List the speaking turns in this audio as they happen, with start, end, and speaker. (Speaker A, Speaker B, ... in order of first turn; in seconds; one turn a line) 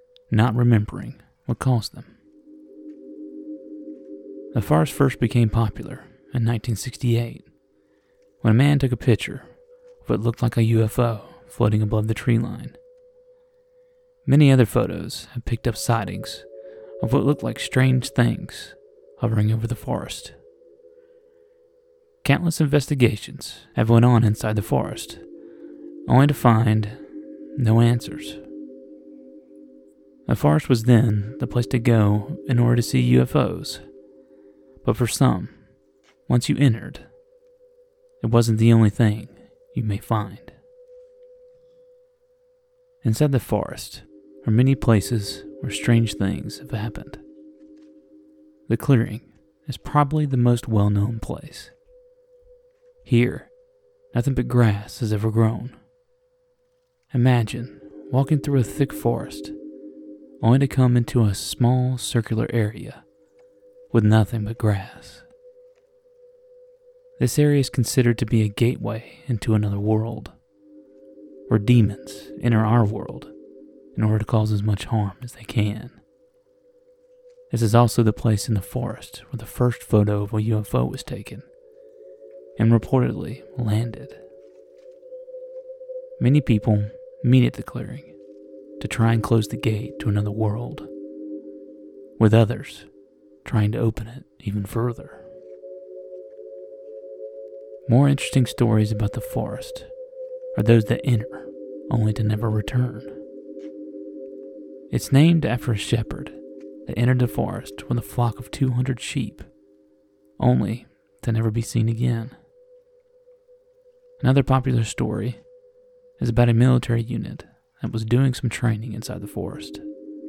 Speaker A: 0.3-2.2
Speaker A: 4.5-7.5
Speaker A: 8.4-9.5
Speaker A: 10.0-12.8
Speaker A: 14.2-16.5
Speaker A: 17.0-20.4
Speaker A: 22.2-25.2
Speaker A: 26.1-27.0
Speaker A: 27.6-28.4
Speaker A: 30.3-33.8
Speaker A: 34.8-35.6
Speaker A: 36.3-37.1
Speaker A: 38.2-40.6
Speaker A: 43.0-47.2
Speaker A: 48.7-51.7
Speaker A: 53.0-53.5
Speaker A: 54.1-55.8
Speaker A: 57.1-59.5
Speaker A: 60.4-63.0
Speaker A: 63.9-65.3
Speaker A: 67.2-70.3
Speaker A: 71.5-73.3
Speaker A: 73.9-76.0
Speaker A: 77.5-81.5
Speaker A: 82.6-84.2
Speaker A: 86.2-88.2
Speaker A: 88.8-90.9
Speaker A: 92.2-92.9
Speaker A: 93.4-95.3
Speaker A: 97.8-99.9
Speaker A: 100.5-103.2
Speaker A: 104.9-109.5
Speaker A: 110.4-112.4
Speaker A: 114.2-115.4
Speaker A: 116.2-119.8